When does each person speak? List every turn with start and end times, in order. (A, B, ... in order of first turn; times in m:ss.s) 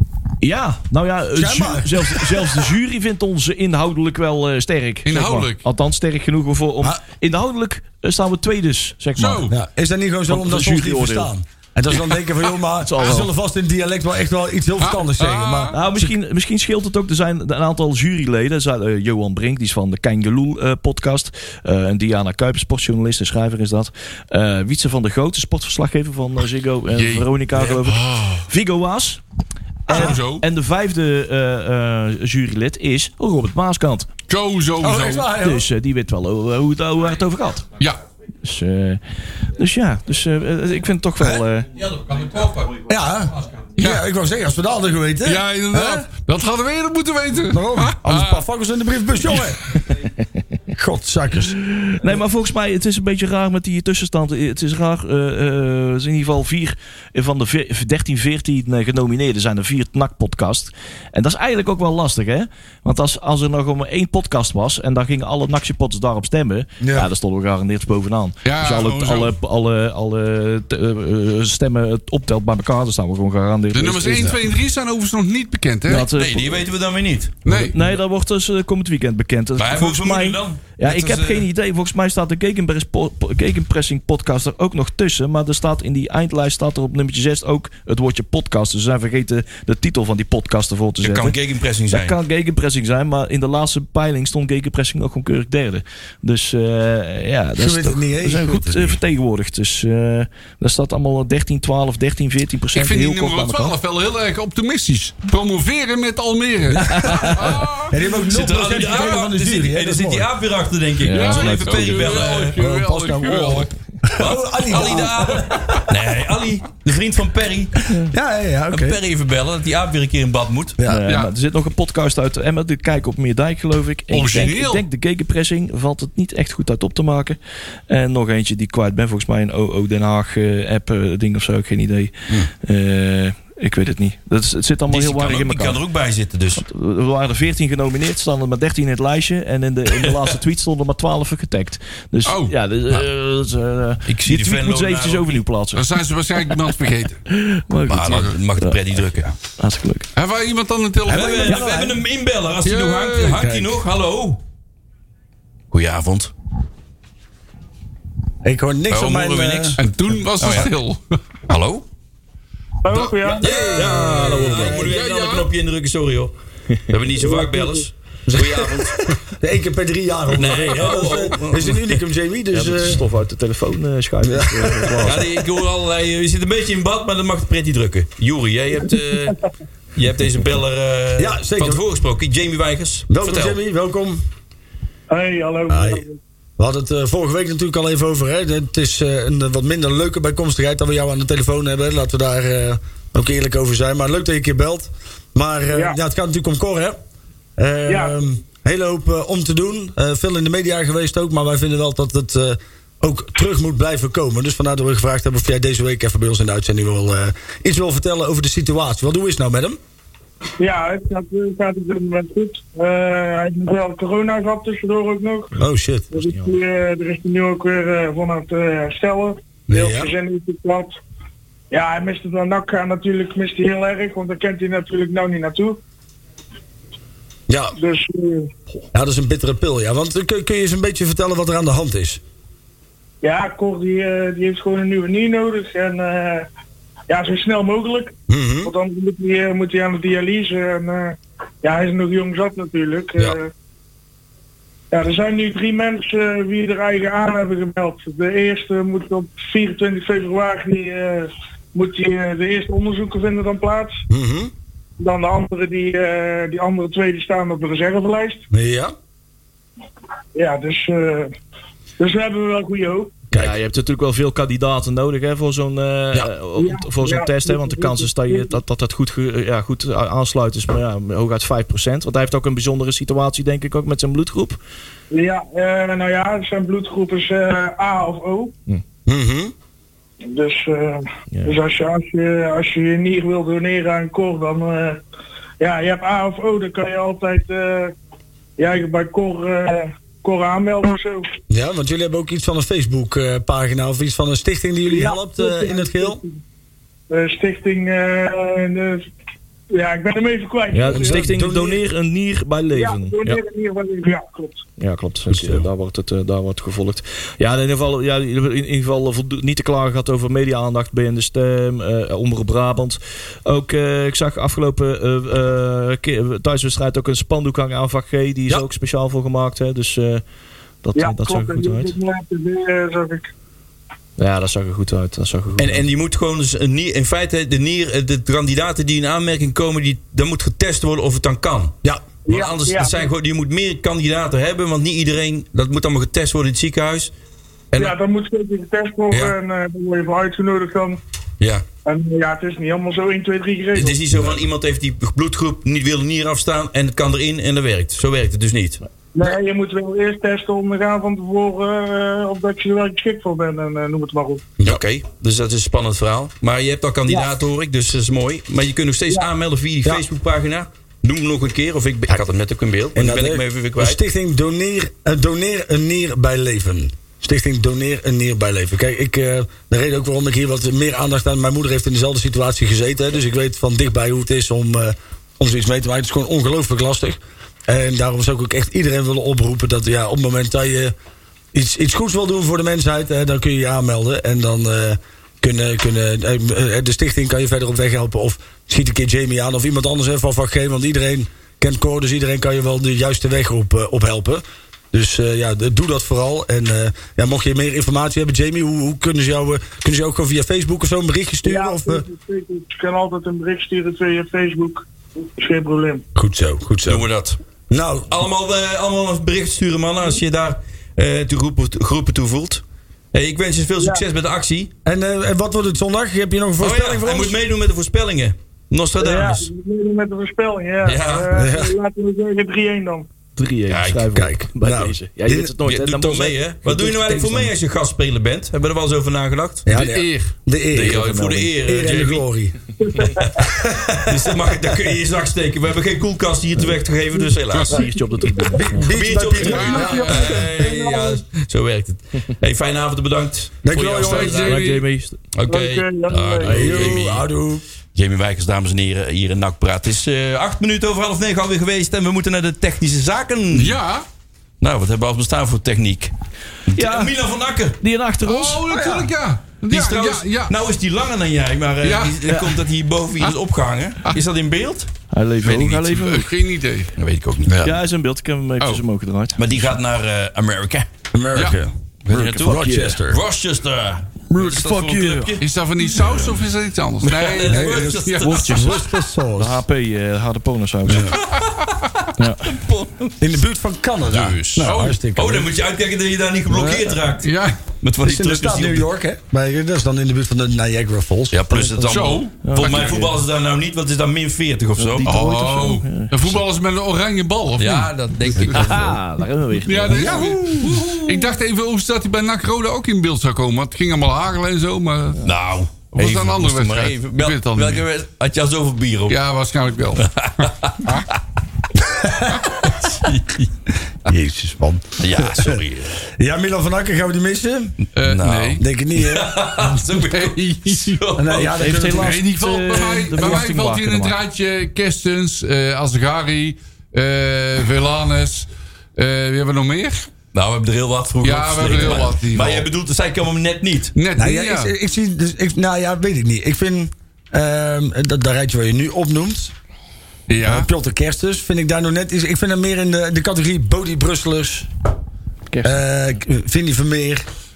0:00.4-0:09.5 A
0:01.3-0:02.6 B
0:05.0-0:05.6 C
0:09.2-0:09.5 C
0:09.5-0:16.1 B
0:10.3-0:11.3 A
0:12.8-0:13.3 A
0:14.8-0:15.8 C
0:15.7-0:29.2 A
0:26.9-0:28.4 C
0:29.9-0:30.4 C
0:29.9-0:34.1 A
0:34.3-0:35.3 C
0:34.8-0:35.6 B
0:35.4-0:37.6 A
0:38.4-0:39.0 A
0:39.6-0:41.8 A
0:42.1-0:42.7 C
0:42.8-0:46.0 B
0:43.8-0:44.0 C
0:45.2-0:48.4 C
0:47.5-0:49.8 B
0:50.7-0:51.6 B
0:51.7-1:14.4 A
1:06.8-1:07.1 B
1:08.4-1:09.4 C
1:13.7-1:16.1 C
1:15.9-1:16.6 A
1:16.1-1:17.4 D
1:17.4-1:17.8 C
1:17.5-1:31.4 A
1:19.6-1:21.5 D
1:31.0-1:32.2 D
1:31.9-1:43.8 A
1:37.6-1:39.0 B
1:42.7-1:48.0 C
1:46.7-1:50.3 B
1:46.8-1:47.4 A
1:48.2-1:52.6 D
1:51.0-1:52.2 A
1:51.1-1:53.7 C
1:52.5-1:55.6 B
1:54.2-1:57.8 D
1:54.8-1:55.8 C
1:57.9-1:59.0 B
1:58.7-2:00.8 D
2:00.8-2:01.1 B
2:00.9-2:07.4 A
2:04.1-2:04.8 C
2:07.9-2:15.8 A
2:14.9-2:16.6 D
2:16.6-2:25.9 A
2:22.2-2:22.5 C
2:24.1-2:25.4 D
2:25.7-2:27.2 C
2:26.5-2:29.0 A
2:27.9-2:29.3 D
2:28.0-2:28.4 C
2:29.6-2:30.1 A
2:30.1-2:31.6 C
2:31.0-2:34.4 D
2:31.1-2:32.0 B
2:32.6-2:33.4 C
2:33.3-2:33.6 B
2:35.7-2:36.3 D
2:38.4-2:39.8 B
2:38.9-2:41.2 C
2:39.1-2:39.8 D
2:40.4-2:40.7 D
2:41.5-2:41.8 D
2:42.8-2:44.6 E
2:42.9-2:45.5 C
2:43.4-2:46.3 D
2:43.7-2:44.9 A
2:46.9-2:49.2 D
2:47.2-2:47.8 E
2:48.3-2:53.0 B
2:50.3-2:51.8 D
2:52.5-2:55.4 A
2:54.2-2:55.2 B
2:55.0-2:59.4 D
3:00.0-3:03.6 D
3:01.2-3:01.8 B
3:03.1-3:04.2 B
3:05.1-3:06.2 E
3:05.7-3:06.0 B
3:06.6-3:17.0 B
3:17.6-3:29.8 B
3:17.9-3:18.1 E
3:30.6-3:35.6 E
3:35.6-3:36.3 B
3:36.1-3:40.9 E
3:39.7-3:40.1 B
3:41.7-3:45.8 E
3:47.5-3:47.8 B
3:47.8-3:48.5 E
3:48.9-3:52.2 B
3:53.2-3:56.5 E
3:57.1-4:03.5 E
3:58.3-3:58.7 B
4:04.9-4:14.0 E
4:14.1-4:14.5 B
4:15.0-4:18.4 E
4:18.5-4:18.9 B
4:20.3-4:21.3 E
4:22.0-4:23.2 E
4:23.3-4:23.6 B
4:23.3-4:34.6 A
4:26.6-4:28.5 E
4:35.1-4:38.5 E
4:39.0-4:39.5 B
4:40.3-4:45.0 E
4:45.6-4:47.9 E
4:48.6-4:51.3 E
4:51.5-4:56.2 B
4:54.9-4:56.4 E
4:57.1-4:59.1 E
4:59.7-5:01.3 E
5:00.7-5:03.4 A
5:00.9-5:01.8 B
5:02.7-5:04.6 E
5:04.8-5:20.2 A
5:05.3-5:05.6 B
5:20.8-5:21.9 A
5:20.9-5:23.3 E
5:24.2-5:25.8 A
5:25.6-5:37.1 D
5:32.2-5:33.1 E
5:37.8-5:41.0 E
5:41.4-5:41.6 D
5:41.8-5:44.0 E
5:43.7-5:48.8 D
5:49.1-5:54.6 E
5:54.6-6:04.0 D
6:02.9-6:20.9 B
6:21.5-6:42.1 B
6:41.4-6:44.8 E
6:45.4-6:46.0 E
6:46.1-6:47.0 B
6:46.8-6:47.4 D
6:47.7-6:48.1 B
6:48.1-6:54.7 D
6:53.8-6:54.0 E
6:54.8-6:57.4 B
6:56.6-6:59.5 D
6:59.0-7:03.1 E
7:00.8-7:01.3 D
7:01.3-7:01.7 B
7:03.4-7:07.5 A
7:03.7-7:04.2 D
7:04.1-7:05.5 B
7:05.6-7:09.7 D
7:09.6-7:14.8 B
7:09.7-7:10.3 C
7:10.7-7:11.5 A
7:10.8-7:12.2 D
7:12.8-7:13.3 E
7:13.9-7:24.6 D
7:17.5-7:17.8 C
7:17.6-7:18.9 A
7:18.4-7:20.6 B
7:19.4-7:20.5 C
7:19.8-7:21.2 E
7:23.6-7:24.5 B
7:24.0-7:24.8 C
7:24.1-7:25.2 A
7:25.3-7:27.2 D
7:25.5-7:27.0 E
7:26.4-7:27.6 B
7:27.9-7:33.8 D
7:33.5-7:34.0 C
7:34.6-7:36.1 D
7:36.7-7:37.8 D
7:36.7-7:37.2 A
7:37.8-7:38.6 A
7:38.2-7:40.5 C
7:38.7-7:39.1 B
7:39.7-7:44.9 D
7:41.8-7:42.4 C
7:42.2-7:42.5 A
7:45.1-7:46.3 A
7:45.5-7:46.9 C
7:47.0-7:47.7 D
7:47.6-7:49.8 A
7:49.4-7:50.9 D
7:51.1-7:53.2 B
7:52.1-7:55.4 D
7:52.1-7:53.0 A
7:54.3-7:55.4 A
7:55.4-7:58.6 C
7:56.1-7:56.4 D
7:57.0-7:58.8 D
7:57.4-7:59.6 B
7:58.2-7:58.8 A
7:59.3-8:01.2 A
8:00.9-8:01.2 B
8:01.0-8:03.2 D
8:02.2-8:02.5 A
8:03.2-8:05.5 B
8:04.0-8:08.8 D
8:04.6-8:05.0 C
8:06.5-8:07.0 B
8:07.2-8:07.6 C
8:08.0-8:12.1 B
8:11.3-8:15.1 D
8:11.9-8:13.0 C
8:12.4-8:13.2 A
8:14.8-8:16.4 A
8:15.0-8:18.9 C
8:17.6-8:19.0 D
8:18.5-8:20.5 A
8:19.6-8:25.3 C
8:19.9-8:20.6 B
8:20.1-8:21.3 D
8:25.2-8:29.2 D
8:25.9-8:27.8 C
8:29.1-8:31.0 C
8:30.0-8:31.0 D
8:31.7-8:32.5 B
8:32.5-8:33.5 D
8:34.0-8:37.7 B
8:35.0-8:36.0 D
8:37.9-8:38.6 C
8:38.0-8:41.8 D
8:38.6-8:40.0 B
8:40.0-8:41.0 C
8:41.1-8:42.3 B
8:41.4-8:44.2 A
8:41.9-8:50.1 C
8:50.3-8:53.9 D
8:51.2-8:52.7 C
8:53.9-8:54.7 C
8:54.2-8:59.5 B
9:00.3-9:00.7 C
9:00.4-9:04.7 B
9:05.5-9:05.8 A
9:05.6-9:07.2 B